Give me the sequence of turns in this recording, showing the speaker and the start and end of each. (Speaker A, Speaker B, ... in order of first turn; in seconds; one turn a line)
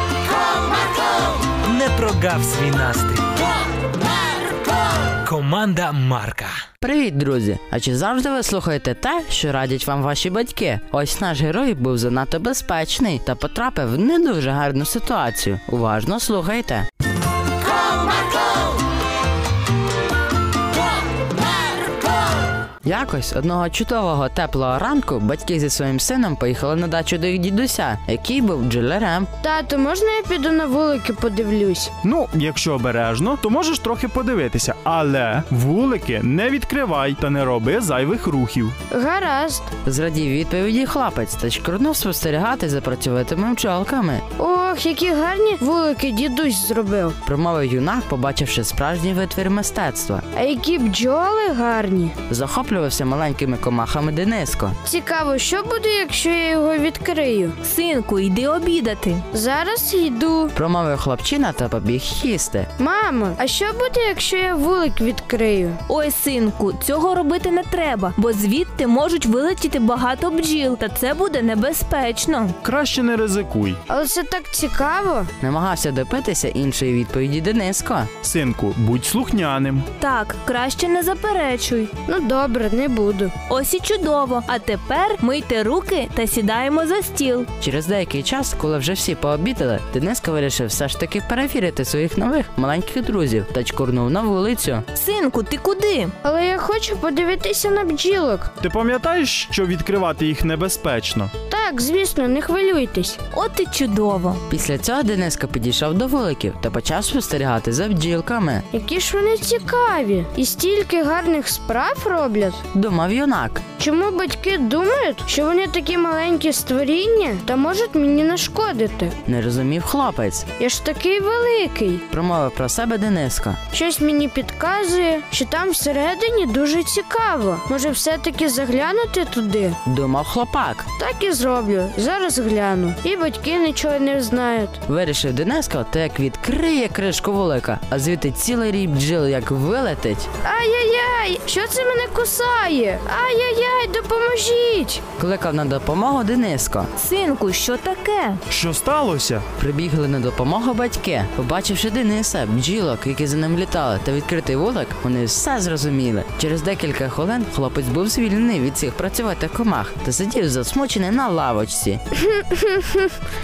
Speaker A: 1.6-3.3
Speaker A: 5.2-6.6
Speaker B: 6.8-16.9
Speaker B: 22.9-29.3
Speaker C: 29.4-31.9
Speaker D: 32.0-38.8
Speaker C: 38.9-39.7
Speaker B: 39.8-44.3
Speaker C: 44.4-47.2
Speaker B: 47.2-50.2
Speaker C: 50.3-52.2
Speaker B: 52.3-54.8
Speaker C: 54.8-57.6
Speaker E: 57.6-59.2
Speaker C: 59.3-60.5
Speaker B: 60.5-62.7
Speaker C: 62.8-65.8
Speaker E: 65.9-72.6
Speaker D: 72.6-73.8
Speaker C: 73.9-75.3
Speaker B: 75.4-78.1
Speaker D: 78.2-79.9
Speaker E: 80.0-81.9
Speaker C: 82.1-83.3
Speaker E: 83.5-87.5
Speaker B: 87.6-94.8
Speaker E: 94.9-96.1
Speaker C: 96.2-98.5
Speaker D: 98.6-101.3
Speaker C: 101.5-103.2
Speaker E: 103.3-104.4
Speaker B: 104.5-108.7
Speaker C: 108.7-112.6
Speaker B: 112.7-113.6
Speaker C: 113.8-119.2
Speaker B: 119.2-120.5
Speaker C: 120.6-122.0
Speaker B: 122.1-123.6
Speaker C: 123.7-129.8
Speaker B: 129.8-130.9
Speaker C: 131.0-134.8
Speaker B: 134.9-140.3
Speaker C: 140.4-145.0
Speaker B: 145.2-146.9
Speaker E: 147.0-148.4
Speaker D: 148.5-149.5
Speaker B: 149.6-162.0
Speaker C: 162.3-163.2